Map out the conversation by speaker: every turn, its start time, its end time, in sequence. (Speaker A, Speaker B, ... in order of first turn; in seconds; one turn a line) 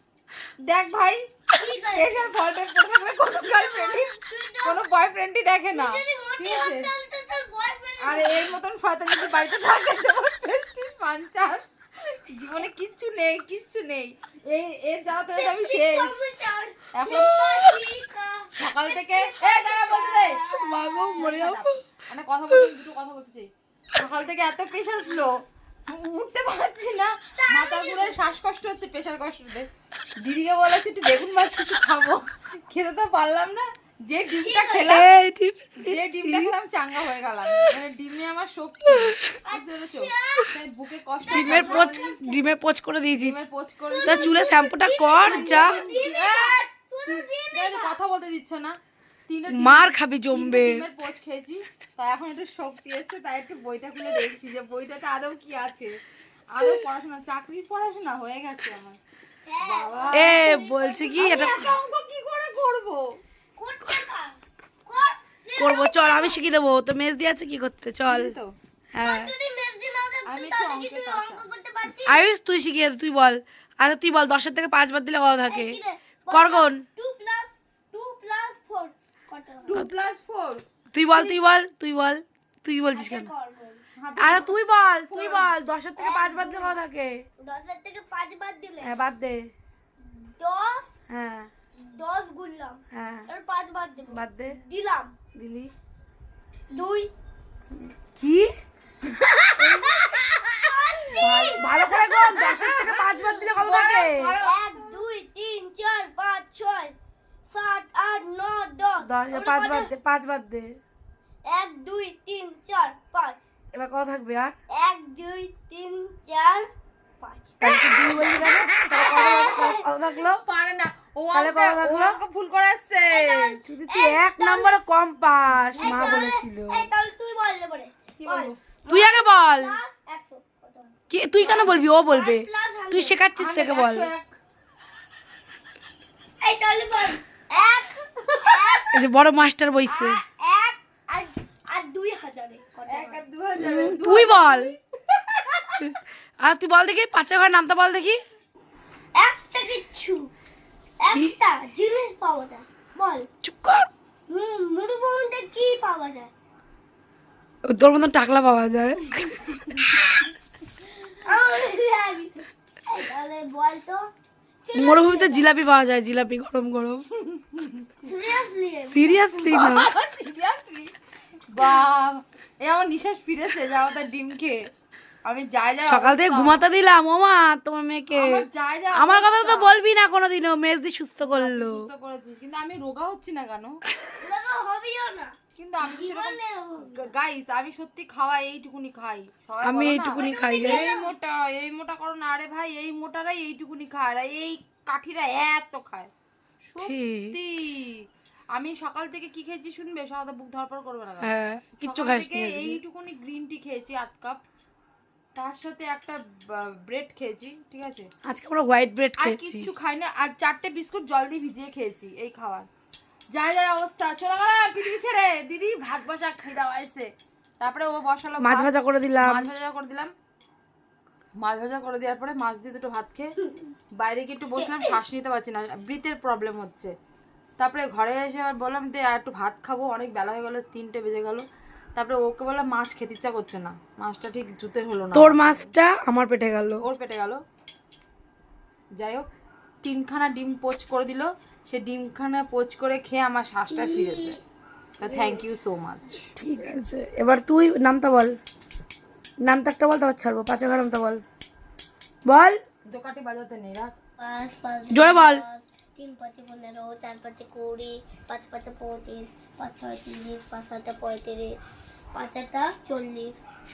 Speaker A: 0.7-1.3
Speaker B: 1.5-2.3
Speaker A: 1.9-6.9
Speaker B: 3.3-4.8
Speaker B: 5.7-8.5
Speaker A: 8.0-16.2
Speaker B: 15.3-21.5
Speaker A: 16.9-17.5
Speaker A: 18.6-20.4
Speaker C: 20.5-21.6
Speaker A: 21.2-25.4
Speaker A: 25.9-29.7
Speaker B: 27.4-28.3
Speaker A: 30.2-35.1
Speaker B: 34.3-35.0
Speaker C: 34.9-36.5
Speaker A: 35.8-42.2
Speaker C: 39.0-39.3
Speaker B: 39.5-40.6
Speaker C: 41.3-43.4
Speaker B: 41.3-42.4
Speaker A: 43.1-44.5
Speaker B: 43.9-48.0
Speaker C: 44.0-45.8
Speaker A: 45.2-56.0
Speaker C: 49.5-50.8
Speaker A: 56.5-59.0
Speaker B: 59.5-61.6
Speaker A: 59.6-60.5
Speaker C: 60.1-61.7
Speaker A: 61.1-63.2
Speaker B: 63.6-66.5
Speaker C: 65.6-68.3
Speaker A: 68.1-68.5
Speaker C: 68.9-69.3
Speaker B: 69.0-72.3
Speaker A: 70.3-71.5
Speaker C: 72.0-75.8
Speaker B: 75.5-79.8
Speaker C: 76.3-76.8
Speaker A: 79.7-81.5
Speaker C: 80.9-83.3
Speaker B: 82.9-83.8
Speaker A: 84.0-84.5
Speaker C: 84.2-87.2
Speaker A: 85.1-85.5
Speaker B: 86.0-86.8
Speaker B: 87.4-89.0
Speaker C: 88.8-89.5
Speaker B: 90.4-90.9
Speaker C: 91.1-91.5
Speaker B: 91.9-95.2
Speaker C: 92.9-93.3
Speaker C: 94.1-94.6
Speaker C: 95.4-95.7
Speaker B: 96.7-97.1
Speaker C: 98.2-98.5
Speaker B: 99.6-102.9
Speaker C: 101.2-104.4
Speaker A: 102.4-104.9
Speaker B: 104.4-106.9
Speaker B: 107.5-109.9
Speaker C: 109.0-110.8
Speaker B: 111.5-113.5
Speaker C: 113.7-114.6
Speaker B: 114.7-116.7
Speaker B: 117.2-119.8
Speaker C: 117.6-120.4
Speaker A: 118.4-118.8
Speaker A: 120.2-123.6
Speaker C: 121.3-122.2
Speaker B: 123.1-124.8
Speaker C: 123.7-126.9
Speaker A: 125.6-126.3
Speaker B: 125.8-133.2
Speaker A: 128.2-128.6
Speaker C: 128.9-129.8
Speaker C: 131.1-134.1
Speaker A: 133.4-134.4
Speaker B: 136.4-137.9
Speaker A: 138.2-138.9
Speaker B: 138.4-139.0
Speaker C: 138.9-140.2
Speaker B: 139.9-143.2
Speaker A: 142.9-144.8
Speaker C: 143.6-144.7
Speaker A: 145.5-145.8
Speaker C: 145.8-148.2
Speaker B: 149.2-150.3
Speaker B: 151.0-153.3
Speaker C: 153.4-153.9
Speaker B: 154.3-156.3
Speaker C: 157.7-160.1
Speaker B: 161.2-164.1
Speaker B: 164.6-165.5
Speaker C: 164.8-167.1
Speaker A: 167.2-167.9
Speaker B: 168.0-169.2
Speaker C: 168.9-169.9
Speaker A: 169.4-170.9
Speaker A: 171.5-174.7
Speaker A: 175.2-176.7
Speaker C: 175.8-181.9
Speaker A: 178.1-179.8
Speaker A: 181.2-183.8
Speaker B: 184.2-187.1
Speaker A: 185.6-196.1
Speaker C: 189.6-191.0
Speaker B: 190.1-191.1
Speaker A: 196.7-204.4
Speaker C: 196.8-197.4
Speaker C: 201.2-202.8
Speaker A: 205.3-208.1
Speaker C: 208.3-209.7
Speaker A: 209.2-212.7
Speaker A: 213.3-220.1
Speaker C: 218.4-219.5
Speaker A: 221.4-223.4
Speaker A: 224.0-226.9
Speaker B: 224.6-225.0
Speaker A: 227.6-235.7
Speaker C: 235.1-236.8
Speaker A: 236.8-237.4
Speaker A: 239.0-239.2
Speaker A: 239.8-244.4
Speaker B: 243.7-244.4
Speaker A: 245.0-246.3
Speaker C: 246.3-248.4
Speaker C: 249.4-251.2
Speaker C: 252.3-252.6
Speaker A: 252.9-253.9
Speaker B: 254.2-261.6
Speaker C: 254.9-255.4
Speaker B: 262.1-263.4